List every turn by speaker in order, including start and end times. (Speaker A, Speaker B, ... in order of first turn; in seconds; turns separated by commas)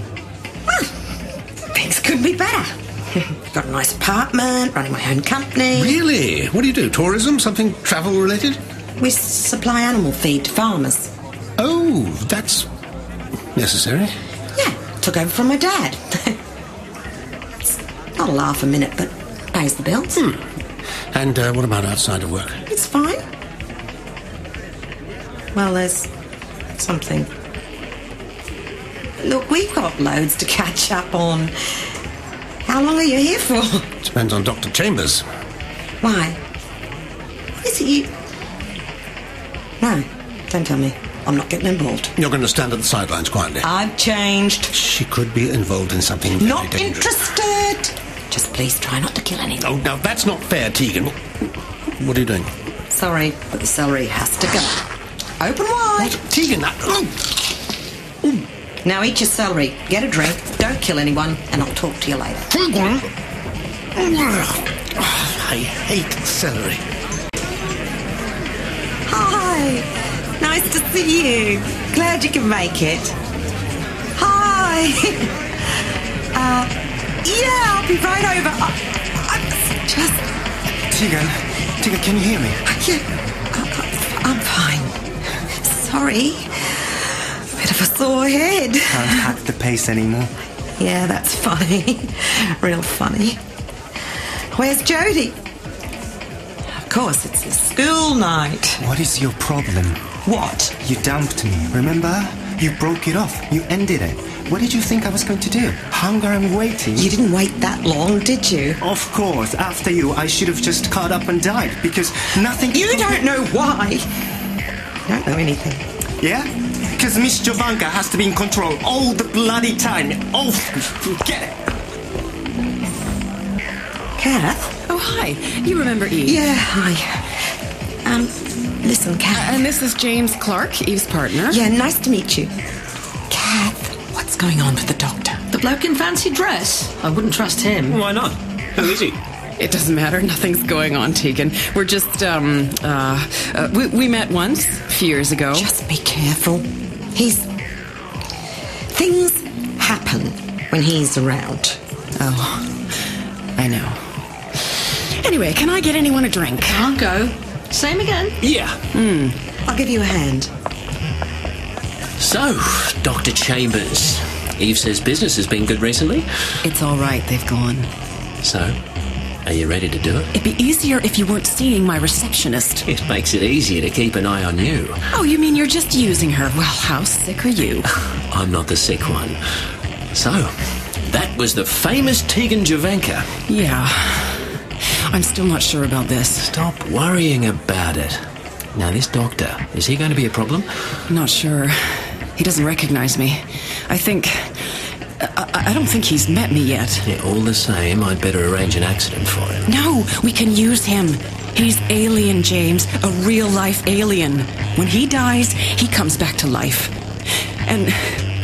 Speaker A: 1.7-6.0, Speaker B: 5.7-8.6, Speaker A: 9.0-11.1, Speaker B: 11.6-12.7, Speaker B: 13.6-14.2, Speaker A: 14.6-16.4, Speaker A: 17.7-20.2, Speaker B: 20.1-20.4, Speaker B: 21.1-22.6, Speaker A: 22.7-23.2, Speaker A: 25.5-26.1, Speaker A: 26.8-27.3, Speaker A: 29.2-31.5, Speaker A: 32.7-33.9, Speaker B: 34.0-35.2, Speaker A: 36.0-36.4, Speaker A: 37.6-38.1, Speaker A: 39.8-42.1, Speaker B: 42.2-43.7, Speaker A: 43.6-44.7, Speaker B: 44.7-47.1, Speaker A: 46.4-49.7, Speaker B: 49.6-51.5, Speaker B: 52.0-52.5, Speaker A: 52.9-54.8, Speaker A: 55.4-56.2, Speaker B: 56.0-57.2, Speaker A: 58.8-62.5, Speaker B: 62.5-63.1, Speaker B: 64.0-66.8, Speaker A: 69.1-69.9, Speaker A: 70.4-73.2, Speaker A: 74.2-75.3, Speaker A: 76.3-76.7, Speaker A: 77.2-80.3, Speaker C: 80.9-82.6, Speaker A: 82.7-85.0, Speaker A: 85.6-86.5, Speaker A: 87.6-89.3, Speaker C: 88.9-90.3, Speaker A: 90.8-93.4, Speaker A: 94.5-95.4, Speaker A: 96.9-98.8, Speaker C: 98.8-100.1, Speaker A: 100.2-100.7, Speaker C: 100.8-107.1, Speaker A: 107.0-108.8, Speaker C: 108.8-113.3, Speaker A: 112.7-114.1, Speaker A: 115.1-115.8, Speaker C: 116.2-121.5, Speaker A: 124.2-124.7, Speaker D: 124.9-126.4, Speaker A: 126.2-127.3, Speaker A: 128.0-129.6, Speaker D: 129.3-131.6, Speaker A: 131.5-132.5, Speaker A: 133.3-135.4, Speaker E: 135.5-138.0, Speaker F: 137.9-139.2, Speaker D: 139.6-145.7, Speaker A: 145.5-147.5, Speaker A: 148.9-151.8, Speaker D: 152.2-152.7, Speaker D: 153.6-154.0, Speaker D: 155.2-156.8, Speaker E: 156.7-158.4, Speaker F: 158.4-158.8, Speaker D: 158.9-159.4, Speaker A: 159.7-160.5, Speaker F: 162.2-166.3, Speaker D: 166.6-167.9, Speaker F: 168.4-168.8, Speaker F: 169.4-170.3, Speaker D: 170.3-172.8, Speaker F: 172.9-175.0, Speaker D: 175.1-177.8, Speaker F: 178.3-179.4, Speaker F: 180.1-180.5, Speaker F: 181.1-183.3, Speaker D: 183.5-184.4, Speaker D: 185.1-186.5, Speaker F: 186.5-188.2, Speaker F: 188.8-190.7, Speaker D: 191.1-191.8, Speaker D: 192.4-194.5, Speaker D: 195.2-197.0, Speaker F: 197.1-199.7, Speaker D: 199.7-206.9, Speaker D: 207.7-208.2